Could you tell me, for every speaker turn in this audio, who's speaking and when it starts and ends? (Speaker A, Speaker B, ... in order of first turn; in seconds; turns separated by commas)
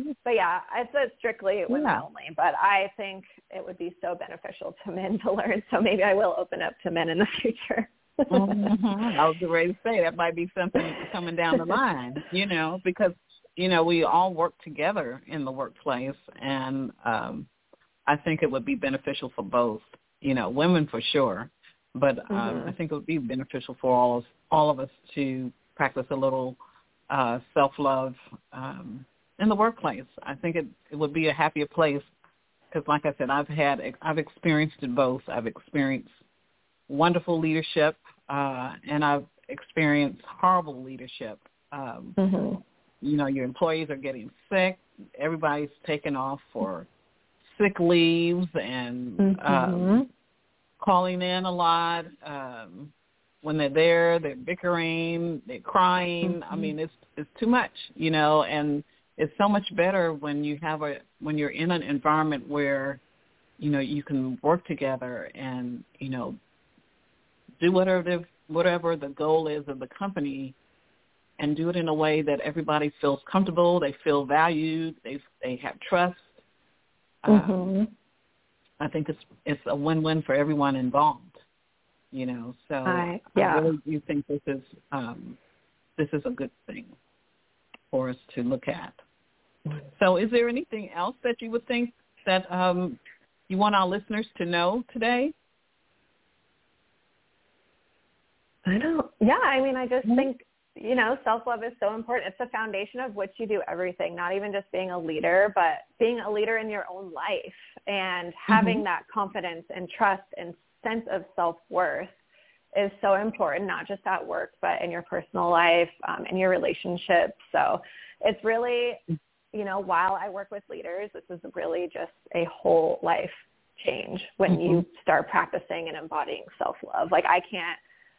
Speaker A: 0.2-8.7, Speaker B: 1.7-2.0, Speaker B: 8.3-17.5, Speaker B: 18.1-26.6, Speaker A: 22.3-22.7, Speaker B: 27.1-32.1, Speaker B: 32.7-36.1, Speaker B: 36.9-42.2, Speaker A: 42.2-42.6, Speaker B: 43.0-46.9, Speaker B: 47.5-50.0, Speaker A: 49.2-50.1, Speaker B: 50.8-63.0, Speaker B: 63.6-66.4, Speaker B: 67.6-70.5, Speaker B: 71.4-76.4, Speaker B: 77.2-77.6, Speaker A: 77.3-77.9, Speaker B: 78.8-81.3, Speaker B: 82.1-85.4, Speaker A: 82.8-83.7, Speaker B: 86.0-86.9, Speaker B: 87.9-89.0, Speaker B: 89.9-95.3, Speaker A: 98.7-112.1, Speaker B: 108.5-108.8, Speaker A: 112.7-119.0, Speaker A: 119.5-127.8, Speaker B: 124.5-124.8